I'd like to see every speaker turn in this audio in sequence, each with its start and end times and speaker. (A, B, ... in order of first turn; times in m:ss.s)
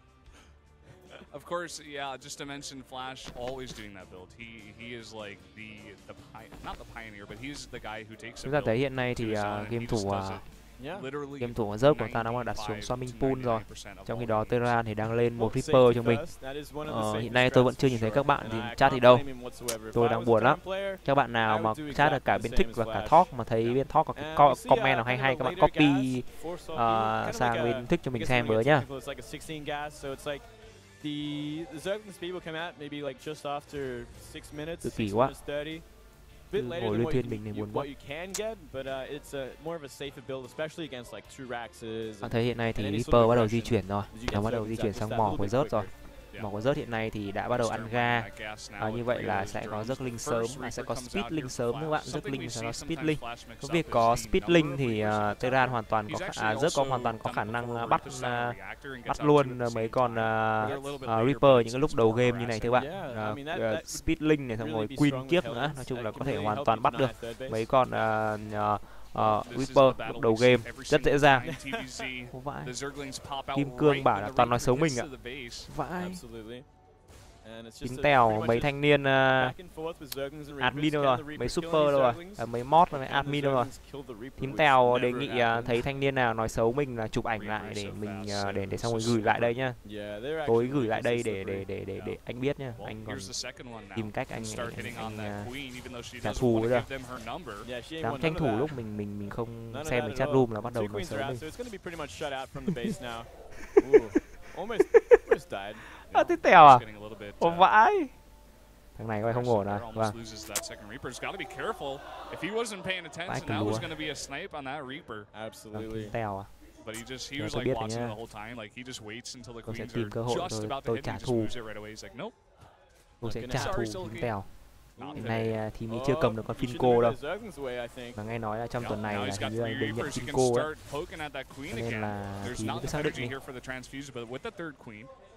0:01.3-0:14.7 A
0:08.4-0:10.5 B
0:10.8-0:11.1 C
0:11.4-0:28.8 B
0:15.3-0:45.9 C
0:34.8-0:35.3 B
0:36.5-0:37.9 B
0:42.2-1:11.5 B
0:47.5-1:02.9 A
1:02.7-1:07.7 C
1:09.2-1:15.7 A
1:11.4-1:11.8 C
1:12.3-1:12.8 B
1:13.5-1:15.1 B
1:15.6-1:16.2 B
1:16.0-1:16.7 C
1:17.4-1:22.5 C
1:17.8-1:19.5 B
1:20.6-1:23.7 B
1:23.0-1:25.8 C
1:24.4-1:29.8 B
1:27.3-1:29.6 A
1:29.8-1:31.7 C
1:30.4-1:36.9 B
1:31.9-1:37.7 A
1:37.6-1:38.8 C
1:38.0-1:41.4 B
1:39.7-1:45.9 C
1:46.0-1:46.8 B
1:46.1-1:47.7 A
1:47.4-1:48.1 B
1:49.0-1:50.1 B
1:49.2-1:55.3 A
1:53.2-1:54.0 B
1:55.3-1:56.2 C
1:55.7-1:56.5 B
1:56.8-2:02.4 A
1:57.3-1:58.2 B
1:59.6-2:01.5 B
2:03.2-2:07.2 B
2:03.2-2:03.8 C
2:03.5-2:05.6 A
2:05.0-2:08.2 C
2:08.1-2:10.7 B
2:08.8-2:15.1 A
2:11.7-2:13.4 B